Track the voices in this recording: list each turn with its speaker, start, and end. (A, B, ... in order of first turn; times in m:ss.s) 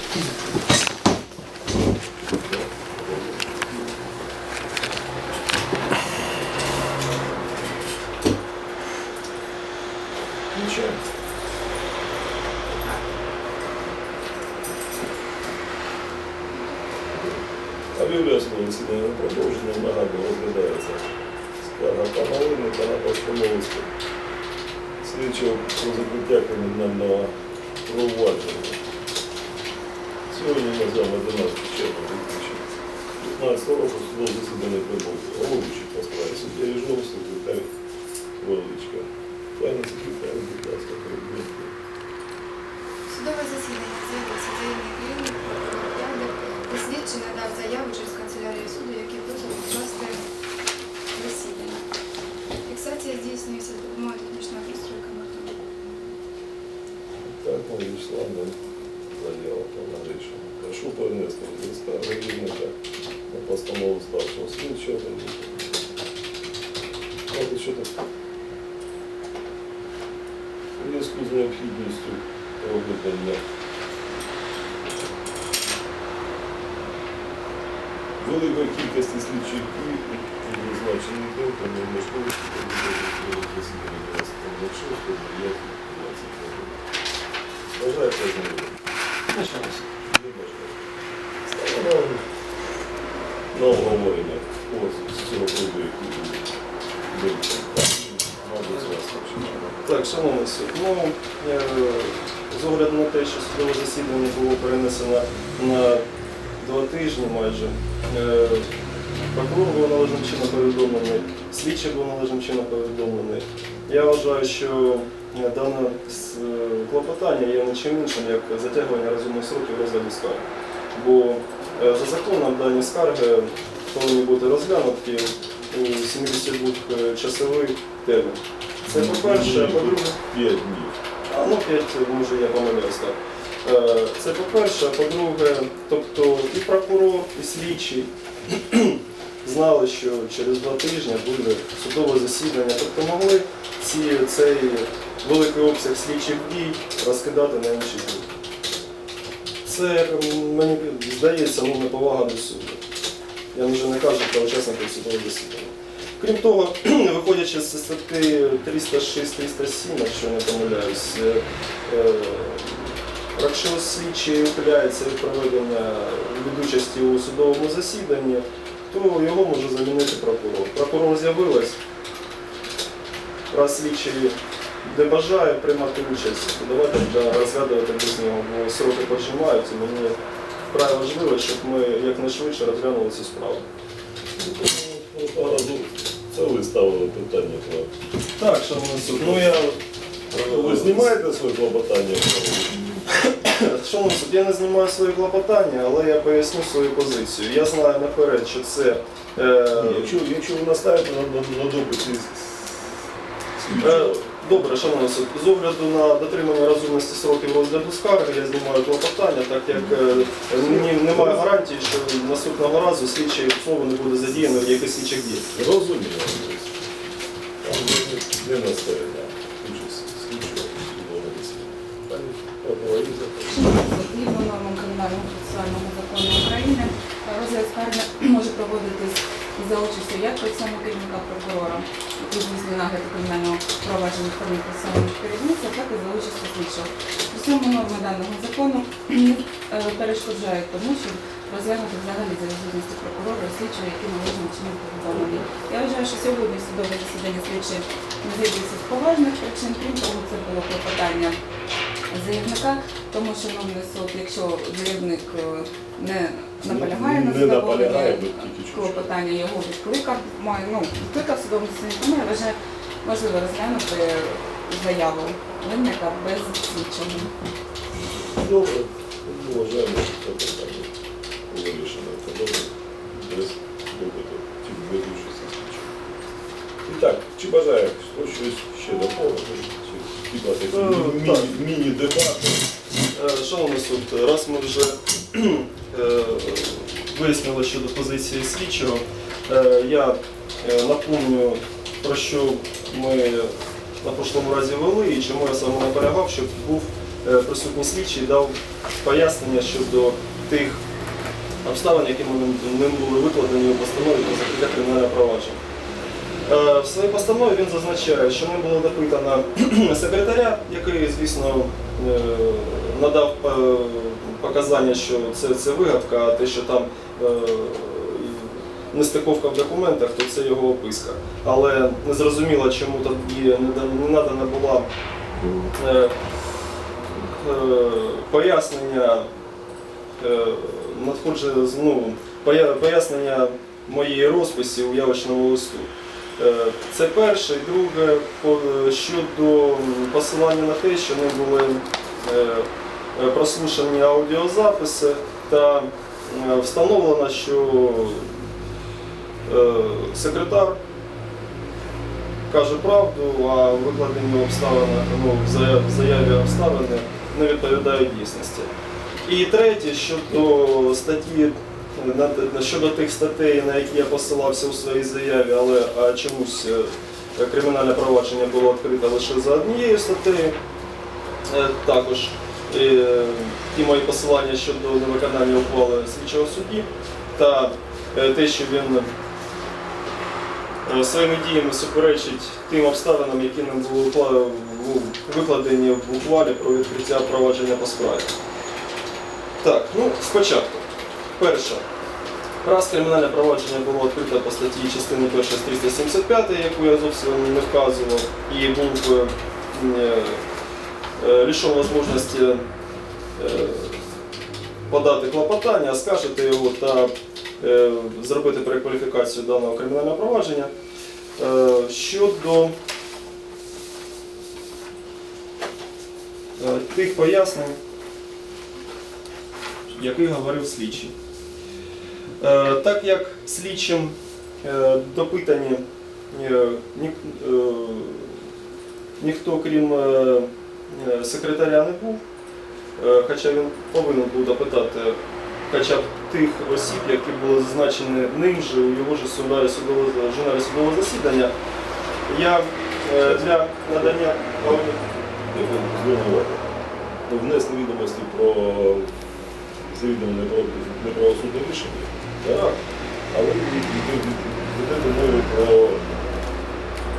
0:02.3-0:03.9 A
0:10.5-0:11.0 A
0:17.9-0:23.9 A
0:25.0-0:27.3 A
0:27.8-0:28.8 A
0:30.3-0:32.6 A
0:33.2-0:37.7 A
0:38.4-0:41.7 A
0:43.1-0:50.3 B
0:51.1-0:51.8 B
0:52.6-0:55.7 B
0:57.2-0:58.6 A
0:59.1-1:02.8 A
1:03.3-1:05.8 A
1:07.3-1:08.0 A
1:10.8-1:13.4 A
1:18.2-1:26.8 A
1:27.7-1:28.8 A
1:29.3-1:29.9 C
1:30.0-1:30.8 A
1:31.4-1:32.3 A
1:33.5-1:36.5 A
1:37.1-1:39.8 A
1:39.8-1:46.0 C
1:46.6-1:48.7 C
1:49.3-2:10.2 C
2:08.9-2:11.0 A
2:11.3-2:28.2 C
2:29.6-2:32.8 C
2:33.5-2:51.8 C
2:53.5-3:00.2 C
3:00.7-3:03.6 C
3:04.4-3:07.9 A
3:08.4-3:09.8 C
3:09.0-3:09.6 A
3:10.3-3:11.1 C
3:10.4-3:12.9 A
3:13.2-3:20.2 C
3:19.7-3:22.7 A
3:23.6-3:24.7 A
3:23.8-3:35.4 C
3:30.6-3:31.5 A
3:35.5-3:36.7 A
3:37.6-3:43.6 A
3:43.5-4:11.4 D
4:05.1-4:05.5 A
4:12.1-4:27.3 D
4:16.6-4:19.1 A
4:28.1-4:30.9 A
4:31.5-4:36.0 A
4:36.8-4:42.7 A
4:40.7-4:41.5 C
4:43.1-5:00.8 C
5:01.6-5:05.6 C
5:06.4-5:24.9 C
5:25.7-5:26.1 C
5:27.1-5:29.3 C
5:30.2-5:48.4 C
5:49.4-5:50.8 C
5:52.5-5:58.7 C
5:59.2-6:10.6 C
6:11.5-6:19.1 C
6:20.8-6:28.3 C
6:29.6-6:30.8 C
6:31.4-6:31.8 C
6:32.6-6:40.4 C
6:41.2-6:42.6 C
6:43.4-6:44.0 C
6:44.9-6:50.7 C
6:51.4-6:52.7 C
6:56.6-6:57.8 C
6:59.9-7:01.1 C
7:02.4-7:08.4 C
7:09.2-7:12.2 C
7:13.0-7:15.2 C
7:15.7-7:21.5 C
7:22.3-7:25.0 C
7:23.2-7:24.7 A
7:25.5-7:26.7 A
7:27.3-7:29.1 A
7:29.9-7:32.1 A
7:32.4-7:32.8 C
7:33.3-7:36.0 A